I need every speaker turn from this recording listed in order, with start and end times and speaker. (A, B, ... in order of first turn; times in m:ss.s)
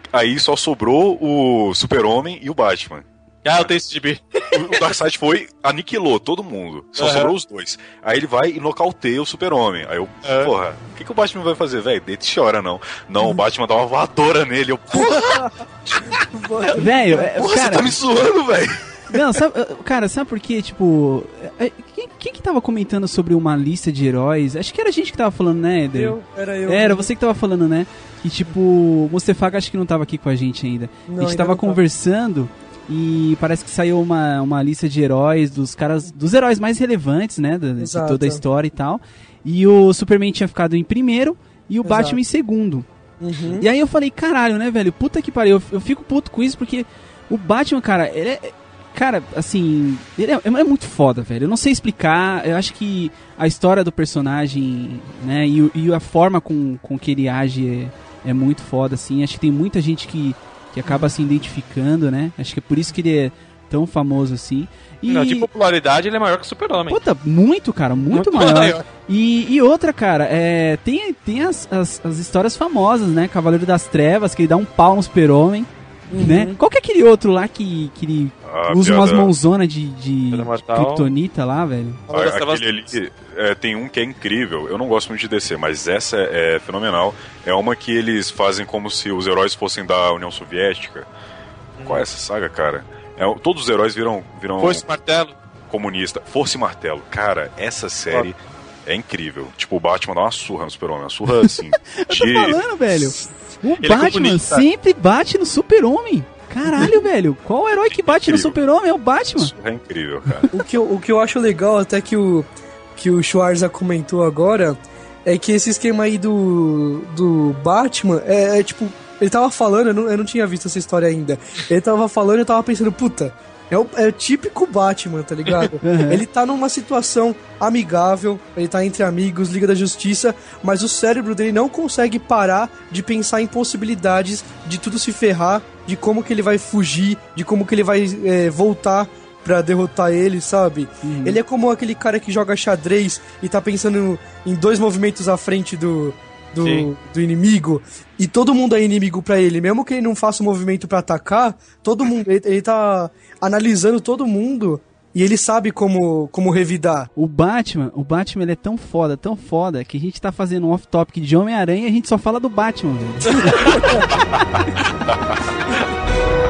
0:00.1-0:03.7 A
0:03.4-0:04.8 B
0:04.5-0:16.2 A
0:07.0-0:07.3 B
0:10.2-0:10.5 B
0:14.9-0:15.5 C
0:16.2-0:17.4 C
0:16.8-0:17.9 D
0:17.4-0:19.2 A
0:19.1-0:42.9 D
0:25.9-0:27.1 C
0:31.1-0:31.8 C
0:37.8-0:38.4 C
0:41.8-0:42.2 C
0:43.2-0:43.6 C
0:43.6-1:05.5 D
1:05.1-1:07.0 B
1:06.9-1:15.7 D
1:08.1-1:08.8 B
1:16.1-1:16.6 C
1:16.2-1:22.0 D
1:18.4-1:19.3 A
1:20.3-1:21.1 B
1:22.1-1:22.9 B
1:22.1-1:31.1 A
1:31.8-1:32.0 B
1:31.8-1:34.8 A
1:34.6-1:35.4 B
1:35.7-1:43.2 A
1:41.4-1:49.5 D
1:43.8-1:44.6 B
1:47.9-1:48.6 A
1:49.4-1:50.5 A
1:50.5-2:37.1 C
2:05.8-2:06.2 D
2:21.0-2:21.4 D
2:26.6-2:26.9 B
2:37.2-2:43.6 D
2:43.3-2:44.2 B
2:43.4-2:44.0 C